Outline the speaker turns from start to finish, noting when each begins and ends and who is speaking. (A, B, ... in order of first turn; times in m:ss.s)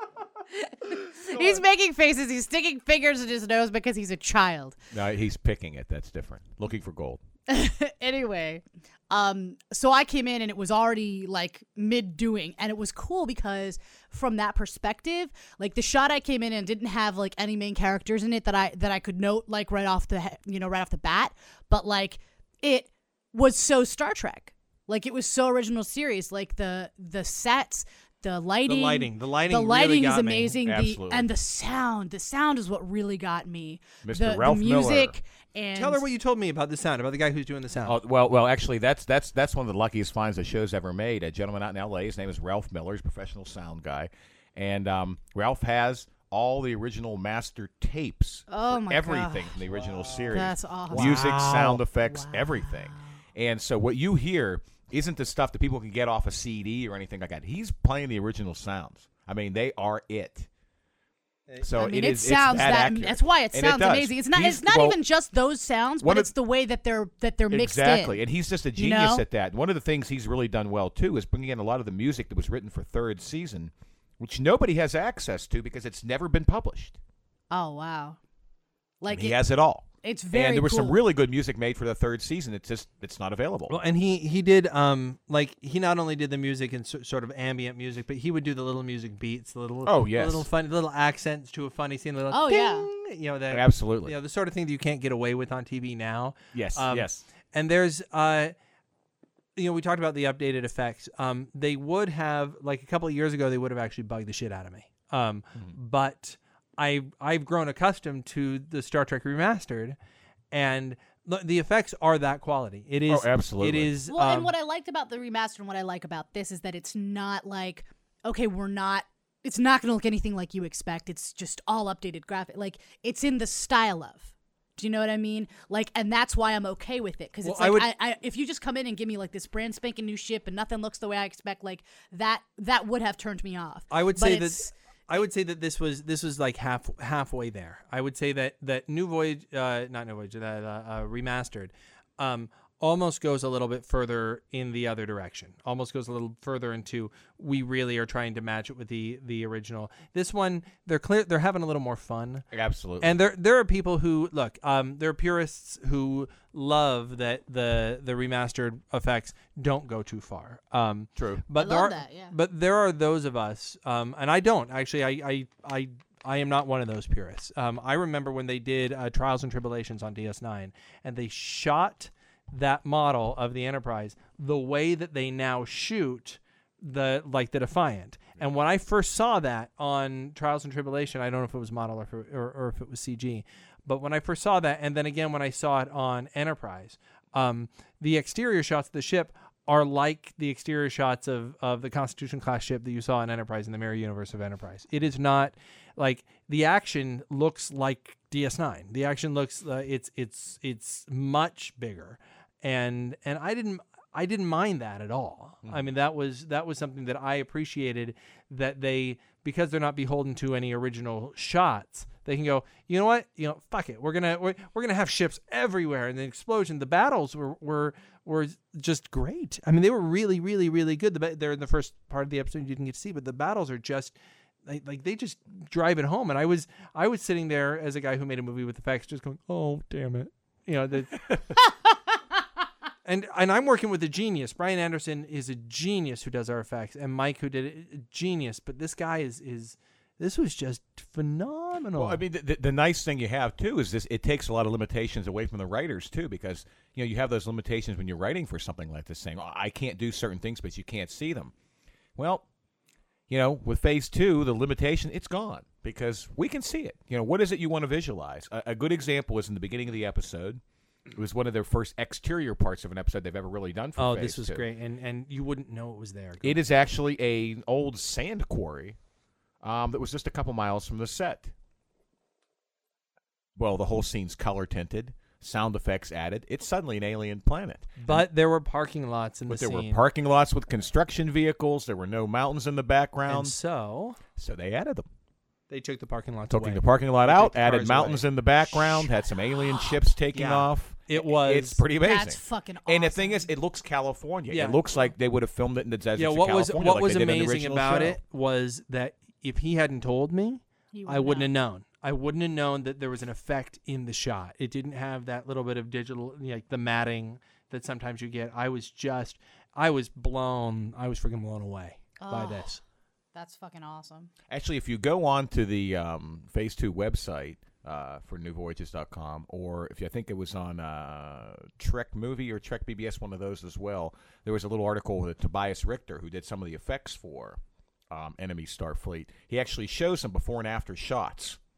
0:00.5-0:04.8 A
0:01.3-0:01.6 B
0:04.9-0:07.2 C
0:07.5-0:36.0 A
0:28.7-0:30.6 B
0:30.6-0:31.3 C
0:34.0-0:35.2 C
0:35.8-0:38.0 B
0:37.8-1:00.5 C
0:48.5-0:49.6 A
0:49.7-0:50.4 B
0:50.3-0:53.1 A
0:50.9-0:51.8 B
1:01.6-1:05.0 C
1:01.8-1:08.2 A
1:06.0-1:06.3 C
1:07.5-1:17.0 C
1:08.8-1:09.2 A
1:17.5-1:18.2 A
1:19.0-1:19.4 A
1:19.1-1:23.8 C
1:20.0-1:21.0 A
1:23.7-1:38.5 B
1:29.8-1:30.5 C
1:32.3-1:32.9 A
1:33.5-1:34.1 C
1:36.5-1:37.2 C
1:39.6-1:50.0 B
1:50.5-1:54.5 B
1:53.1-1:54.0 C
1:54.1-2:14.7 A
2:07.4-2:07.9 B
2:13.9-2:32.5 B
2:32.5-2:33.2 C
2:33.0-3:44.2 B
2:41.2-2:41.4 C
2:41.6-2:42.3 A
3:44.7-3:51.3 B
3:53.0-4:02.2 B
4:02.0-4:11.5 C
4:12.2-4:12.4 C
4:13.3-4:20.6 C
4:21.1-4:24.7 C
4:24.0-4:26.6 B
4:26.4-4:29.0 C
4:29.6-4:31.5 C
4:33.6-4:38.3 C
4:38.0-4:40.0 B
4:39.5-4:43.6 C
4:43.3-4:44.2 B
4:44.4-4:45.1 C
4:45.7-4:48.3 B
4:46.5-4:58.2 C
4:49.6-4:50.0 A
4:50.3-4:51.8 B
4:52.0-4:53.5 A
4:54.5-4:54.8 B
4:56.2-5:12.8 B
5:00.9-5:01.5 A
5:12.2-5:12.7 A
5:13.3-5:14.3 A
5:14.5-5:31.6 C